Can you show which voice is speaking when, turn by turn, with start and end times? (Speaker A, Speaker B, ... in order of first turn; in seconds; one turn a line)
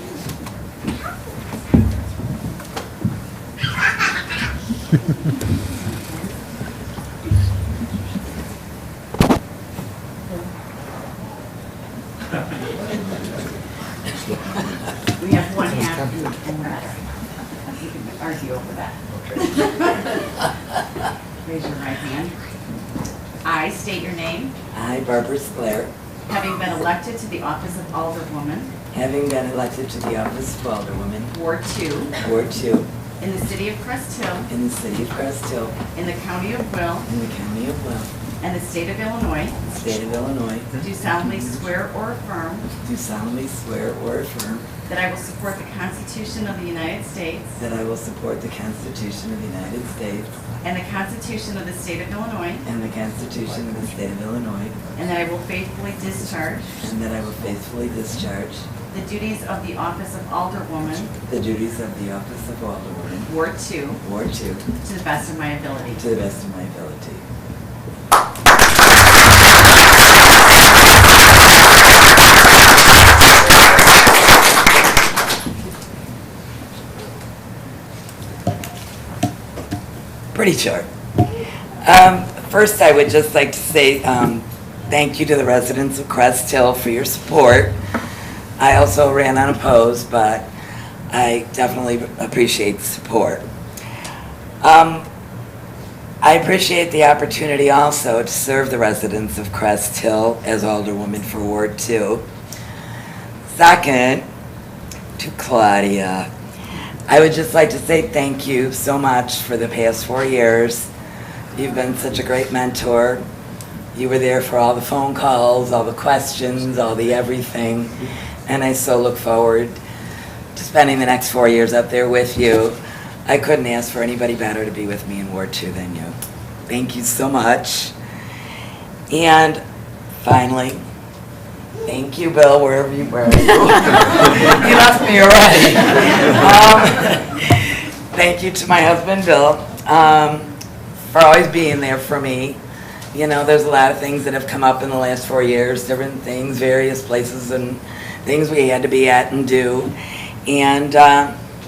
Speaker A: 5.7-6.3
Speaker A: 15.2-17.0
Speaker A: 17.7-20.4
Speaker A: 21.4-22.3
Speaker A: 23.4-24.5
Speaker B: 24.7-25.9
Speaker A: 26.3-28.7
Speaker B: 28.9-31.3
Speaker A: 31.3-32.1
Speaker B: 32.2-32.9
Speaker A: 33.2-34.5
Speaker B: 34.5-35.8
Speaker A: 35.9-37.1
Speaker B: 37.1-38.1
Speaker A: 38.4-39.6
Speaker B: 39.7-40.8
Speaker A: 40.8-42.7
Speaker B: 42.8-44.6
Speaker A: 44.9-47.5
Speaker B: 47.5-50.3
Speaker A: 50.6-52.6
Speaker B: 52.6-54.8
Speaker A: 55.0-56.7
Speaker B: 56.8-58.6
Speaker A: 58.9-61.1
Speaker B: 61.3-63.3
Speaker A: 63.3-64.0
Speaker B: 64.0-64.7
Speaker A: 64.8-66.0
Speaker B: 65.9-67.2
Speaker B: 80.3-80.9
Speaker B: 81.8-87.8
Speaker B: 88.6-90.5
Speaker B: 91.1-93.5
Speaker B: 94.6-95.0
Speaker B: 96.2-102.2
Speaker B: 103.5-104.2
Speaker B: 105.2-106.3
Speaker B: 107.1-110.9
Speaker B: 111.5-113.2
Speaker B: 113.9-119.8
Speaker B: 120.5-127.9
Speaker B: 129.1-129.6
Speaker B: 130.1-130.8
Speaker B: 131.8-140.5
Speaker B: 141.1-142.6
Speaker B: 143.1-151.3